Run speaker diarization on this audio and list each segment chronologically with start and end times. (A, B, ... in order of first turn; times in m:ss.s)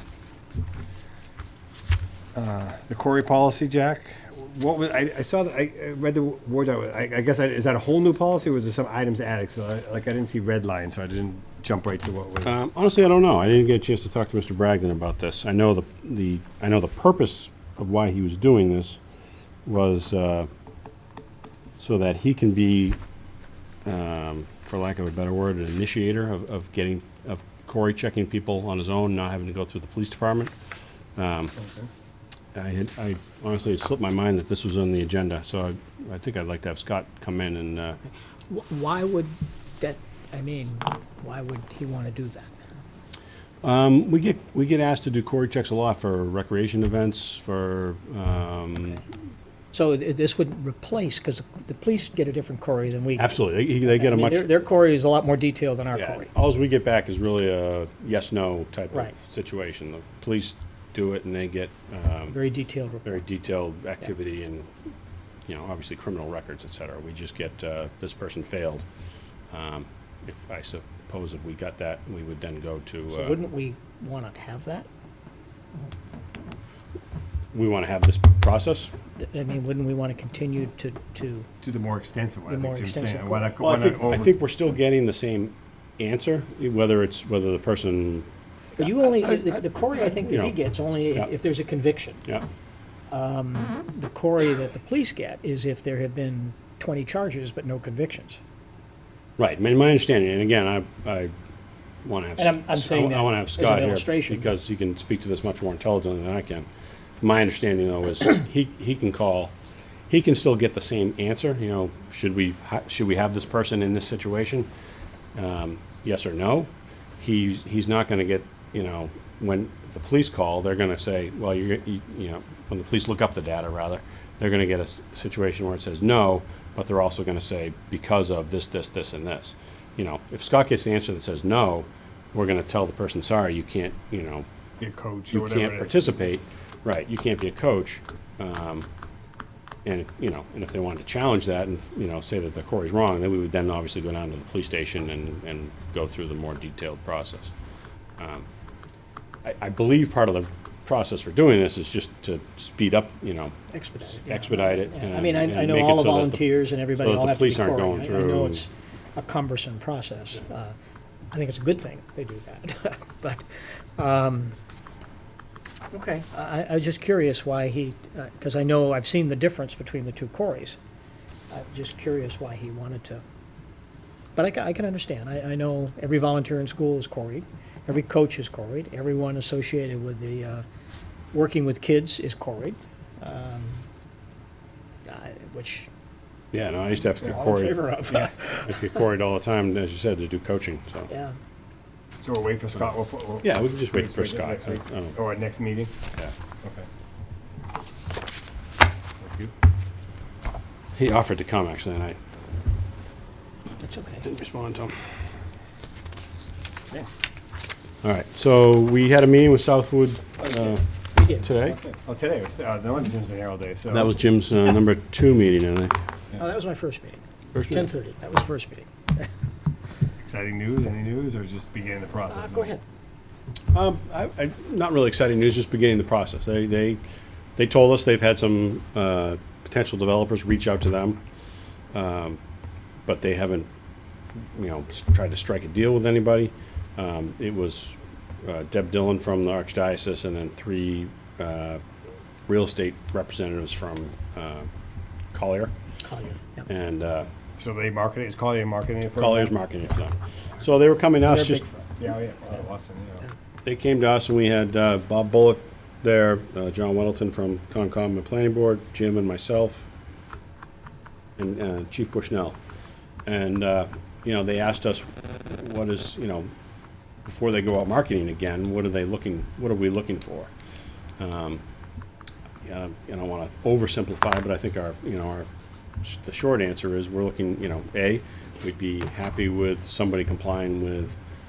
0:02.3-0:12.6 A
0:12.4-0:19.0 B
0:19.6-0:20.5 B
0:21.8-0:23.0 B
0:23.8-0:30.5 B
0:31.2-0:31.5 B
0:31.6-0:31.9 A
0:32.5-0:38.0 B
0:38.5-0:42.5 C
0:43.6-0:49.0 B
0:49.7-0:56.3 C
0:53.2-0:54.5 B
0:55.9-1:02.4 B
1:02.3-1:03.2 C
1:03.0-1:04.7 B
1:05.5-1:08.8 B
1:09.5-1:13.4 B
1:13.1-1:14.9 C
1:17.5-1:18.9 B
1:19.2-1:21.5 C
1:21.6-1:24.3 A
1:22.5-1:23.6 C
1:23.6-1:29.6 B
1:28.8-1:32.2 C
1:30.2-1:30.6 B
1:33.1-1:38.4 C
1:39.4-1:41.3 B
1:42.0-1:46.7 B
1:42.4-1:44.5 C
1:47.2-1:49.5 B
1:50.1-1:54.7 B
1:55.3-2:14.4 B
2:14.8-2:16.3 A
2:15.3-2:18.9 B
2:19.8-2:27.5 B
2:28.2-2:28.5 B
2:29.4-2:38.6 B
2:33.7-2:40.7 C
2:41.3-2:44.6 C
2:45.9-2:50.8 C
2:51.5-2:53.2 C
2:54.4-3:00.6 C
3:01.3-3:03.8 C
3:05.0-3:05.9 C
3:06.5-3:11.1 B
3:07.2-3:09.0 C
3:11.1-3:11.4 C
3:12.2-3:15.9 A
3:13.4-3:15.2 B
3:19.2-3:19.5 A
3:20.9-3:22.2 B
3:23.8-3:24.2 C
3:24.2-3:25.0 B
3:28.0-3:31.8 B
3:30.4-3:30.7 A
3:31.2-3:31.4 C
3:31.4-3:34.1 A
3:33.9-3:36.0 B
3:36.4-3:39.3 C
3:37.5-3:37.9 B
3:40.2-3:42.8 A
3:42.3-3:42.8 C
3:43.7-3:47.0 B
3:47.6-3:51.2 B
3:51.9-3:52.4 B
3:53.0-3:53.7 B
3:54.4-4:01.8 B
4:02.5-4:04.7 B
4:05.3-4:05.7 B
4:06.0-4:06.6 C
4:06.7-4:07.3 B
4:07.6-4:09.5 A
4:09.2-4:11.6 B
4:11.2-4:11.7 C
4:12.0-4:13.2 A
4:13.6-4:19.9 B
4:21.4-4:22.6 B
4:23.2-4:26.5 B
4:27.2-4:30.5 B
4:31.2-4:31.6 B
4:32.6-4:35.5 B
4:36.0-4:41.2 B